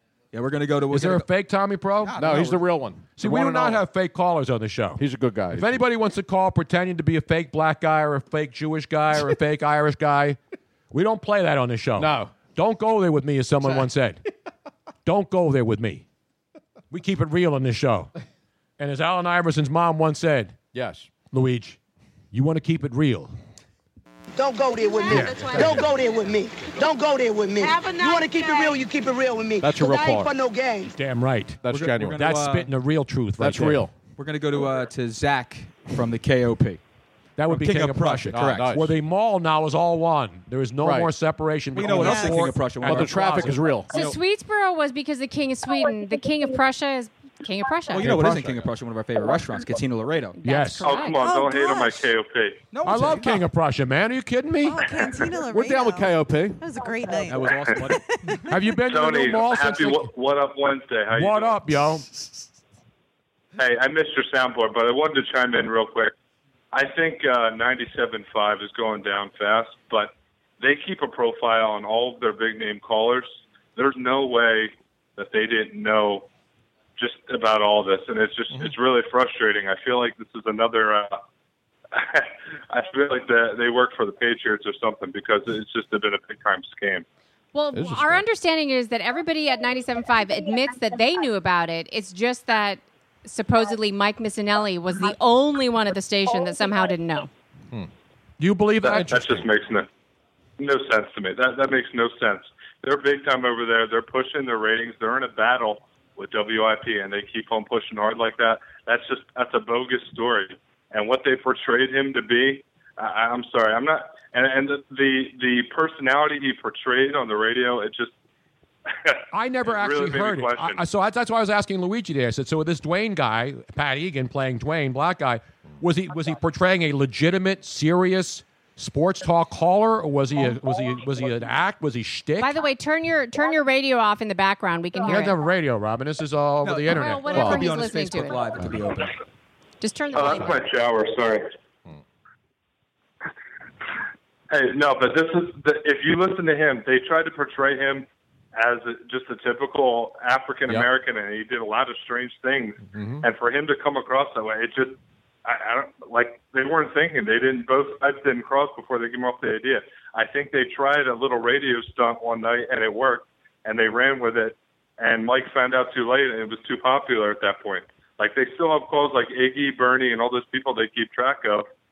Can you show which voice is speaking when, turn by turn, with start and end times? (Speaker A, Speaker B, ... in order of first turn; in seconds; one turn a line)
Speaker A: 0.3-1.3
Speaker B: 0.9-2.4
Speaker A: 2.0-2.6
Speaker C: 2.2-3.8
Speaker B: 3.2-10.4
Speaker C: 5.0-5.8
Speaker B: 10.9-14.2
Speaker C: 12.0-12.3
Speaker B: 15.1-16.0
Speaker B: 16.9-18.1
Speaker B: 18.8-20.6
Speaker C: 20.7-21.1
Speaker B: 21.3-21.8
Speaker B: 22.3-23.3
Speaker D: 24.4-30.9
Speaker B: 25.1-25.9
Speaker C: 29.6-30.3
Speaker B: 30.9-33.9
Speaker C: 31.6-32.2
Speaker A: 31.7-32.7
Speaker C: 33.4-33.9
Speaker A: 34.2-36.8
Speaker B: 37.4-43.6
Speaker A: 37.5-38.7
Speaker C: 38.3-38.9
Speaker C: 40.8-41.1
Speaker A: 41.7-44.2
Speaker C: 42.8-43.9
Speaker E: 43.9-48.1
Speaker A: 47.9-50.4
Speaker C: 48.0-48.7
Speaker E: 50.4-51.2
Speaker B: 50.4-50.9
Speaker F: 50.8-52.6
Speaker G: 51.1-52.1
Speaker A: 52.7-53.5
Speaker B: 52.8-54.8
Speaker G: 54.6-58.4
Speaker C: 55.5-56.6
Speaker A: 57.3-58.5
Speaker B: 58.5-60.1
Speaker F: 58.9-61.6
Speaker B: 61.1-62.1
Speaker F: 63.6-66.1
Speaker F: 66.7-76.3
Speaker F: 77.0-81.2
Speaker F: 81.9-87.0
Speaker E: 87.5-97.3
Speaker C: 87.7-88.2
Speaker B: 98.4-99.4
Speaker F: 98.8-99.9
Speaker C: 98.9-99.5
Speaker F: 100.6-118.1
Speaker F: 119.1-120.8
Speaker B: 119.3-132.6
Speaker E: 132.4-135.4
Speaker B: 135.1-137.3
Speaker A: 136.6-139.1
Speaker E: 136.9-138.4
Speaker C: 137.3-137.7
Speaker E: 139.8-140.7
Speaker F: 140.1-141.5
Speaker F: 144.5-171.7
Speaker C: 152.9-153.2